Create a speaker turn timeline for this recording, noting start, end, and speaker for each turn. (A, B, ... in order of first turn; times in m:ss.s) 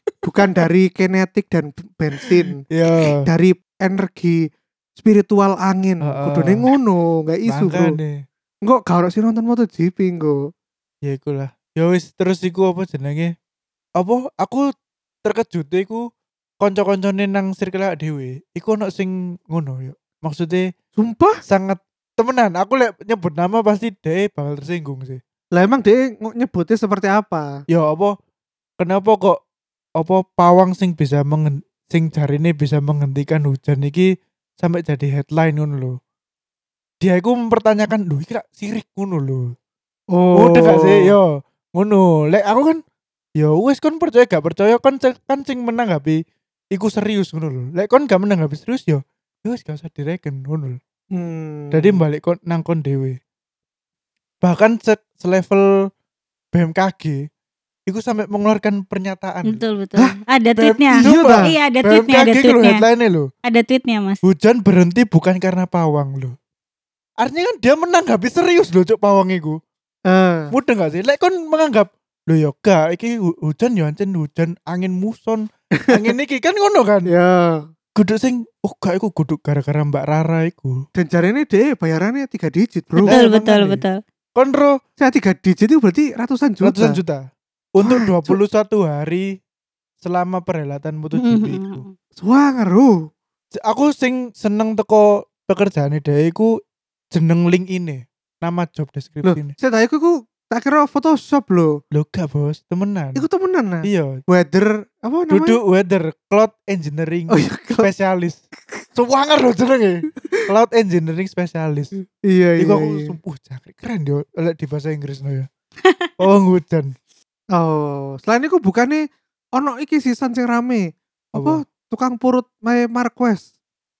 0:00.2-0:02.6 A
0:02.3-0:03.2 B
0:03.2-0:08.0 A
0:06.0-0:06.7 B
0:07.5-0:08.1 B
0:08.6-0:10.5 A
0:11.0-0:13.3 B
0:14.0-0:14.7 B
0:15.2-0:16.0 B
0:16.6-0:20.7 B
0:21.0-0:21.4 A
0:21.4-0:25.2 B
0:25.5-0:27.5 A
0:27.7-0:28.1 B
0:28.8-0:29.4 B
0:30.0-0:36.0 B
0:37.0-0:39.5 B
0:40.1-0:41.1 A
0:40.3-0:42.8 B
0:43.4-0:46.2 B
0:46.7-0:50.8 B
0:51.1-0:52.0 A
0:51.7-0:53.2 B
0:54.4-0:55.9 B
0:56.5-0:57.2 B
0:57.9-0:59.6 B
0:59.4-1:02.8 C
1:00.6-1:03.3 B
1:01.0-1:01.5 A
1:03.4-1:04.2 C
1:04.2-1:06.3 B
1:07.2-1:09.6 B
1:10.1-1:10.5 A
1:10.5-1:17.1 B
1:17.1-1:17.7 A
1:18.0-1:20.8 B
1:21.0-1:23.2 A
1:22.9-1:23.8 B
1:23.1-1:24.0 C
1:24.3-1:24.8 B
1:25.0-1:27.0 A
1:26.6-1:27.2 B
1:27.7-1:29.3 B
1:27.8-1:28.4 A
1:30.0-1:31.8 B
1:31.1-1:31.9 C
1:32.2-1:33.0 A
1:33.6-1:36.5 B
1:37.1-1:39.5 B
1:39.2-1:41.8 A
1:41.9-1:43.2 B
1:43.2-1:45.6 A
1:43.8-1:44.2 B
1:45.3-1:48.4 B
1:47.3-1:47.9 A
1:48.9-1:51.9 B
1:52.2-1:53.1 A
1:52.6-1:55.5 B
1:55.8-1:56.1 C
1:56.2-1:56.9 B
1:57.5-2:03.5 A
2:01.3-2:01.6 B